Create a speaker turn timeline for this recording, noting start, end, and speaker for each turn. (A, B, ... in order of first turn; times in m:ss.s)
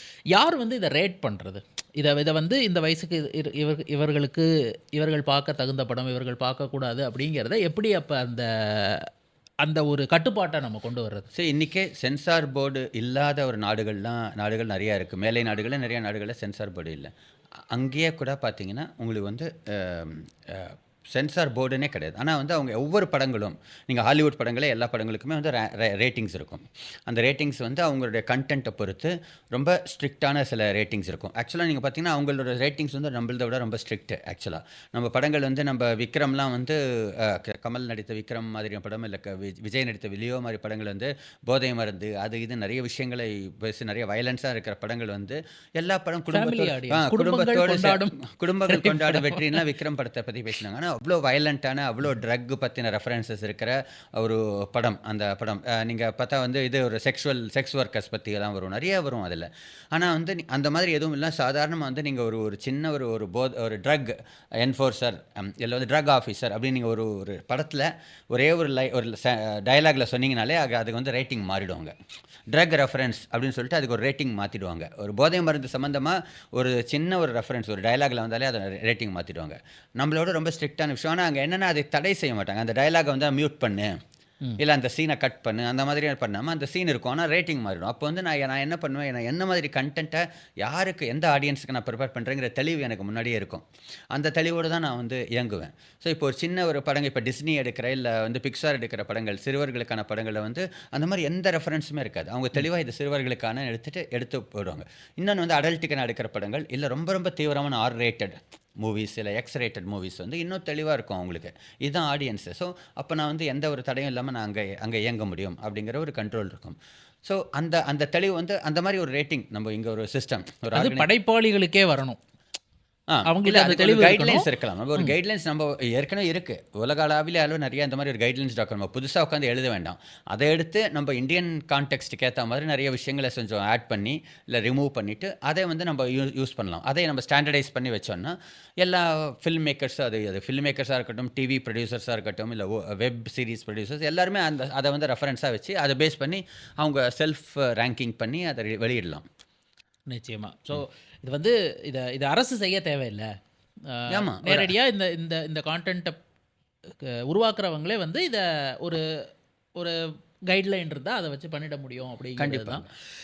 0:00.3-0:09.1 A
0:09.6-0:11.3 A
0:11.3-0:17.1 B
0:17.7-1:12.0 B
0:46.3-0:49.6 A
1:12.5-1:24.0 B
1:24.6-2:01.1 B
2:00.8-2:02.2 A
2:03.1-2:29.2 B
2:03.3-2:05.1 A
2:30.1-2:33.3 A
2:33.9-2:36.2 A
2:34.1-2:34.7 B
2:37.0-2:39.1 A
2:39.8-2:42.9 A
2:42.4-2:42.9 B